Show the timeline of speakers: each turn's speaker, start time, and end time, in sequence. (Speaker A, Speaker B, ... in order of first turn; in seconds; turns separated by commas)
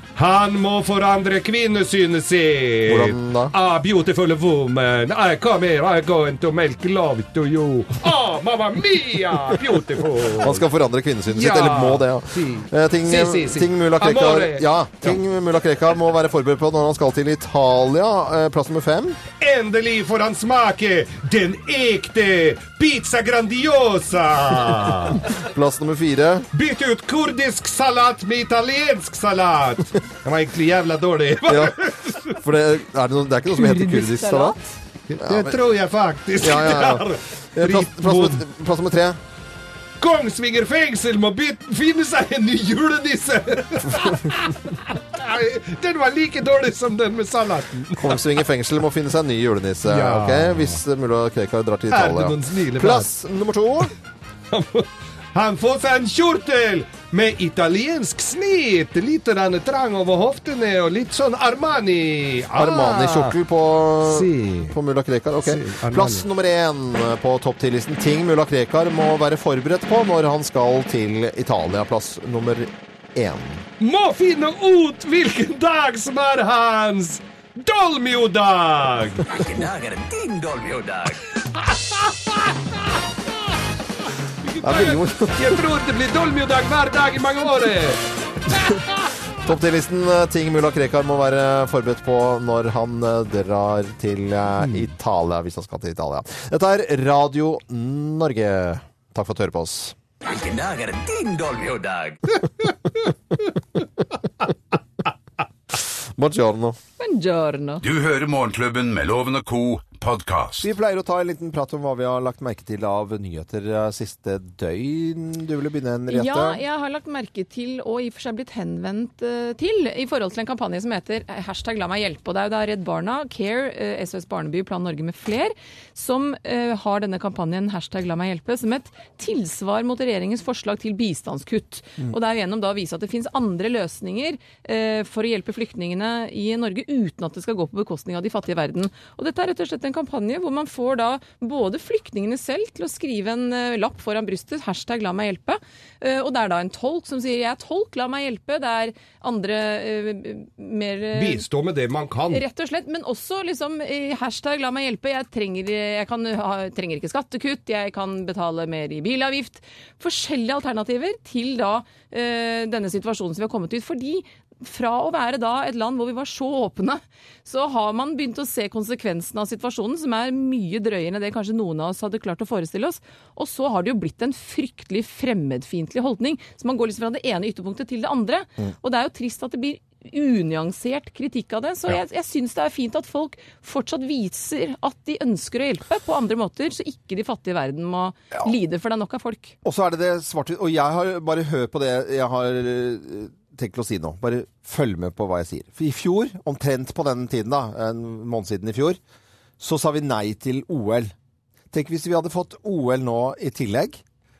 Speaker A: 0.1-10.6, Speaker B: 2.9-3.5, Speaker B: 10.4-19.2, Speaker A: 11.3-15.2, Speaker A: 19.4-25.3, Speaker B: 25.3-26.4, Speaker A: 26.5-32.4, Speaker B: 31.5-31.8, Speaker B: 32.3-34.6, Speaker C: 33.5-34.8, Speaker A: 35.1-38.4, Speaker B: 35.2-35.6, Speaker B: 36.4-39.2, Speaker A: 40.0-48.3, Speaker B: 48.0-53.9, Speaker A: 49.9-50.8, Speaker A: 51.9-53.1, Speaker A: 54.5-63.3, Speaker B: 62.5-73.6, Speaker A: 64.0-64.8, Speaker A: 65.4-66.2, Speaker A: 73.8-79.3, Speaker D: 79.3-81.2, Speaker A: 81.6-82.8, Speaker A: 84.4-89.0, Speaker B: 84.6-85.6, Speaker B: 89.4-100.0, Speaker A: 94.6-94.9, Speaker D: 100.2-102.2, Speaker B: 105.7-106.8, Speaker C: 107.0-107.8, Speaker E: 107.8-110.7, Speaker B: 110.6-116.6, Speaker C: 116.1-151.4, Speaker A: 151.1-152.4, Speaker C: 152.3-189.5, Speaker B: 189.6-199.0, Speaker B: 199.6-201.1, Speaker B: 201.7-204.0